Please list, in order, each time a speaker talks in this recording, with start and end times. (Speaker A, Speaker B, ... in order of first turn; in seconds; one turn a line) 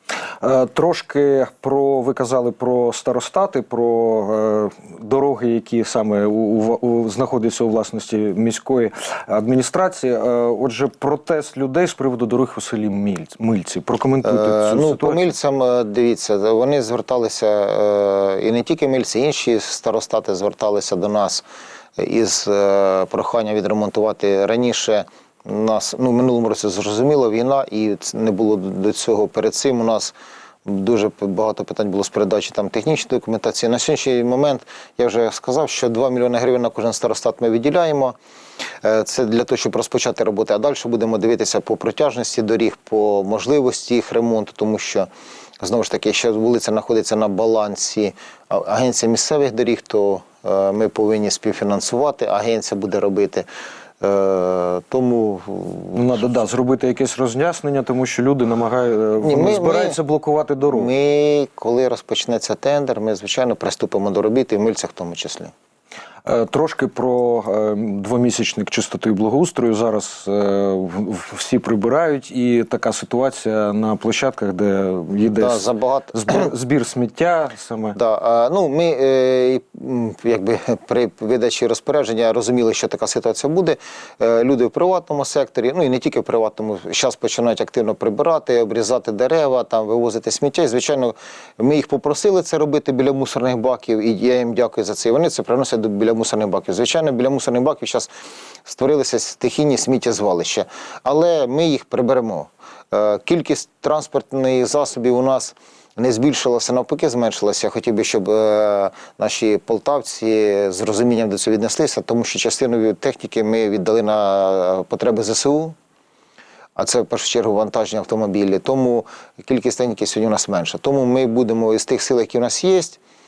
Speaker A: 0.4-15.3
Speaker B: 14.2-21.4
Speaker B: 22.0-30.1
Speaker B: 30.7-38.2
Speaker B: 38.8-45.1
Speaker B: 45.6-53.5
Speaker B: 54.0-56.0
Speaker A: 55.9-60.9
Speaker B: 59.2-60.0
Speaker B: 60.7-65.5
Speaker A: 66.3-78.0
Speaker B: 75.4-76.5
Speaker B: 77.9-98.1
Speaker B: 98.7-115.8
Speaker B: 116.8-123.0